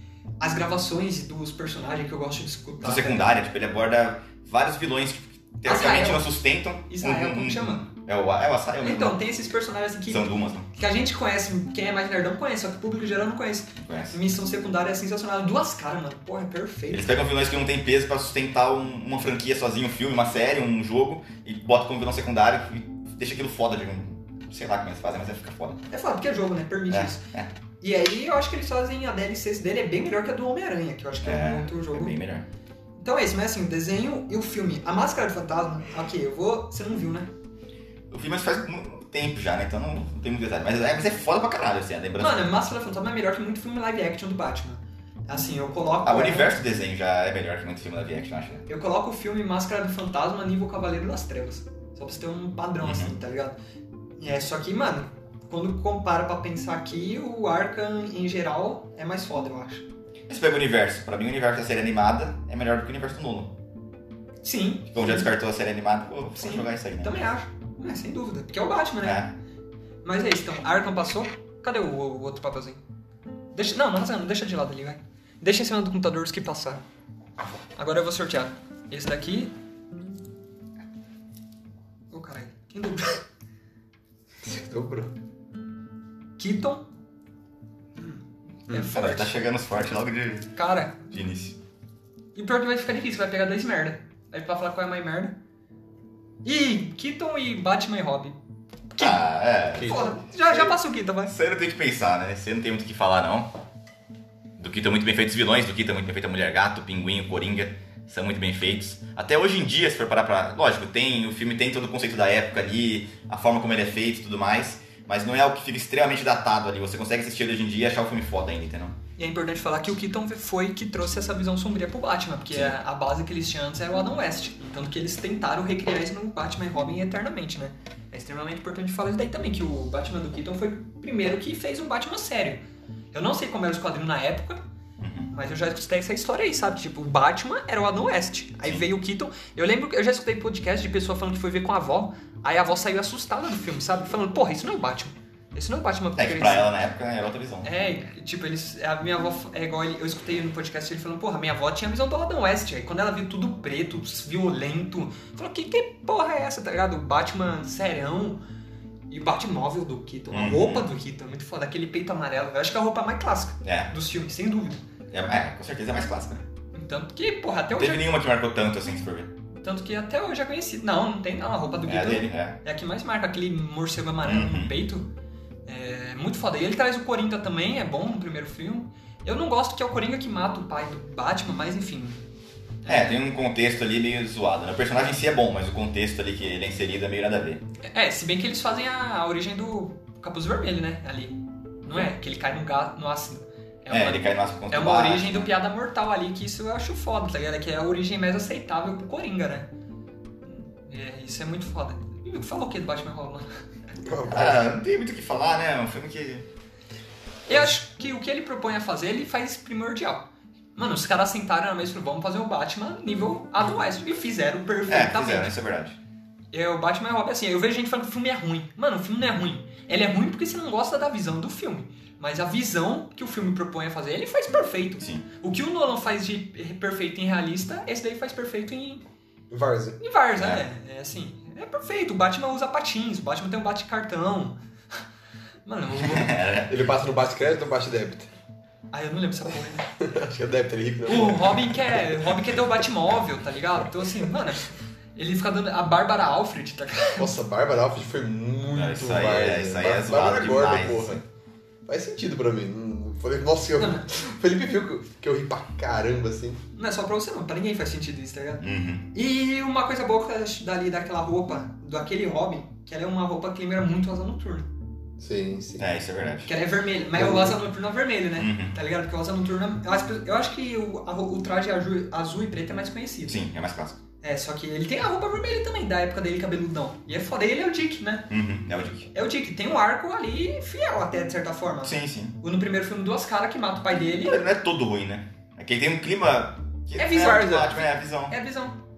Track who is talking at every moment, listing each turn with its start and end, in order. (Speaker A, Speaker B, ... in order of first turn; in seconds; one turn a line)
Speaker A: 0.4-3.2
Speaker B: 2.8-9.2
Speaker A: 5.7-6.3
Speaker A: 6.9-7.9
Speaker A: 8.8-17.2
Speaker B: 10.1-10.7
Speaker B: 13.8-14.2
Speaker B: 16.9-25.8
Speaker A: 25.9-27.2
Speaker B: 26.9-27.5
Speaker A: 27.8-32.2
Speaker B: 31.2-32.5
Speaker A: 33.0-37.3
Speaker B: 38.1-42.5
Speaker A: 42.2-46.6
Speaker B: 46.0-48.6
Speaker A: 48.7-53.6
Speaker B: 52.8-53.1
Speaker A: 54.2-59.9
Speaker B: 60.3-63.5
Speaker A: 64.4-65.3
Speaker B: 64.9-67.2
Speaker A: 66.4-69.2
Speaker B: 69.0-69.3
Speaker A: 70.0-72.8
Speaker A: 73.5-76.8
Speaker A: 77.8-79.5
Speaker A: 82.1-83.2
Speaker C: 84.4-85.1
Speaker A: 86.4-86.8
Speaker A: 88.7-89.4
Speaker B: 88.8-90.5
Speaker A: 90.5-91.0
Speaker B: 91.1-91.6
Speaker A: 92.3-95.4
Speaker A: 96.4-98.4
Speaker A: 99.0-99.2
Speaker B: 99.0-100.7
Speaker C: 99.8-100.2
Speaker A: 99.8-101.3
Speaker B: 101.3-103.5
Speaker B: 104.6-119.0
Speaker A: 119.2-132.6
Speaker A: 133.1-134.6
Speaker B: 135.0-135.3
Speaker A: 135.3-146.7
Speaker B: 146.2-147.7
Speaker A: 147.6-158.4
Speaker A: 159.1-164.8
Speaker B: 160.3-160.9
Speaker B: 163.6-163.9
Speaker B: 165.1-166.4
Speaker A: 166.7-168.1
Speaker B: 167.8-169.3
Speaker A: 169.6-175.1
Speaker B: 171.9-172.6
Speaker B: 174.2-174.7
Speaker A: 175.7-182.2
Speaker A: 182.8-183.2
Speaker B: 182.9-187.6
Speaker A: 187.8-199.7
Speaker B: 193.9-195.5
Speaker A: 200.4-203.5
Speaker C: 204.0-204.7
Speaker B: 204.3-206.5
Speaker A: 207.5-215.5
Speaker B: 214.9-216.0
Speaker A: 216.5-229.1
Speaker C: 229.5-230.0
Speaker A: 230.0-234.6
Speaker B: 230.4-230.6
Speaker A: 235.7-236.4
Speaker B: 236.0-236.7
Speaker C: 236.7-238.3
Speaker A: 238.9-239.9
Speaker C: 240.0-242.1
Speaker A: 241.1-247.3
Speaker C: 247.2-251.2
Speaker B: 248.7-251.2
Speaker C: 251.9-256.6
Speaker A: 253.8-254.1
Speaker A: 256.8-264.7
Speaker B: 258.6-259.1
Speaker C: 265.2-265.9
Speaker B: 265.8-266.5
Speaker A: 266.5-273.4
Speaker C: 267.2-267.6
Speaker B: 268.4-268.8
Speaker B: 273.3-274.0
Speaker A: 274.2-278.3
Speaker B: 278.3-279.1
Speaker A: 279.1-284.4
Speaker B: 281.8-282.4
Speaker B: 284.2-288.3
Speaker A: 287.0-288.8
Speaker C: 287.2-287.8